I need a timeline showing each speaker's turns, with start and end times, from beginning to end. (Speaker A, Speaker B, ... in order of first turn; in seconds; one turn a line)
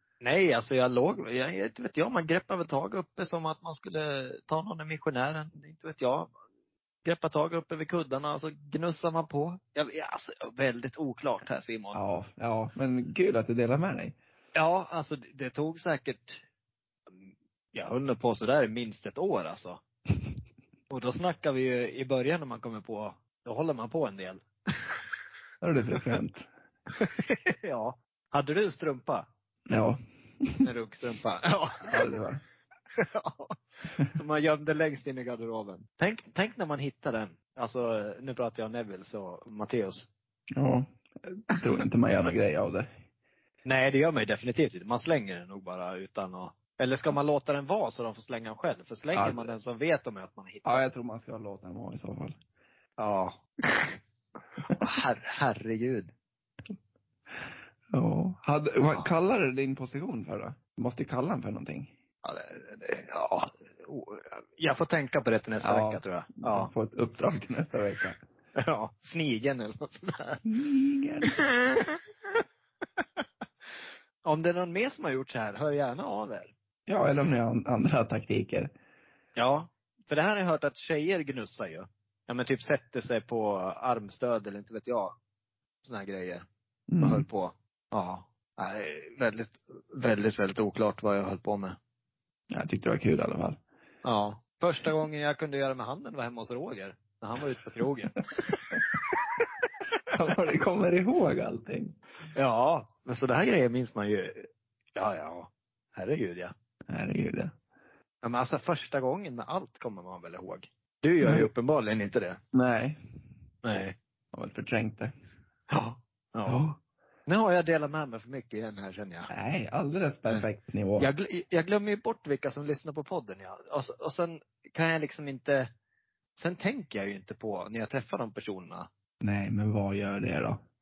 Speaker A: 0.2-6.3
Speaker A: 7.0-12.0
Speaker B: 11.9-14.2
Speaker A: 14.6-16.4
Speaker A: 17.7-19.8
Speaker A: 20.9-25.0
Speaker B: 25.6-26.5
Speaker A: 27.0-29.3
Speaker B: 29.7-30.7
Speaker A: 30.6-32.1
Speaker B: 31.9-32.4
Speaker A: 33.0-33.6
Speaker A: 34.1-40.1
Speaker B: 40.5-42.9
Speaker A: 43.7-50.9
Speaker B: 49.1-49.5
Speaker B: 50.6-52.4
Speaker A: 53.0-54.0
Speaker A: 54.6-56.1
Speaker B: 57.4-61.9
Speaker A: 62.2-66.7
Speaker B: 65.6-68.2
Speaker A: 68.6-70.4
Speaker B: 70.5-71.4
Speaker A: 71.3-72.0
Speaker A: 73.0-73.2
Speaker A: 74.2-76.5
Speaker B: 76.9-78.7
Speaker A: 79.4-85.2
Speaker A: 85.8-86.4
Speaker B: 86.9-87.3
Speaker A: 87.0-91.8
Speaker B: 92.5-93.6
Speaker A: 94.0-98.8
Speaker B: 100.1-102.0
Speaker A: 102.3-106.5
Speaker B: 106.9-107.5
Speaker A: 108.2-112.4
Speaker B: 111.2-111.5
Speaker B: 112.5-113.0
Speaker A: 113.6-114.0
Speaker B: 114.3-115.1
Speaker A: 115.7-116.7
Speaker B: 116.5-116.8
Speaker A: 117.3-119.3
Speaker B: 119.3-121.1
Speaker A: 121.0-125.7
Speaker A: 126.4-128.9
Speaker B: 129.2-130.6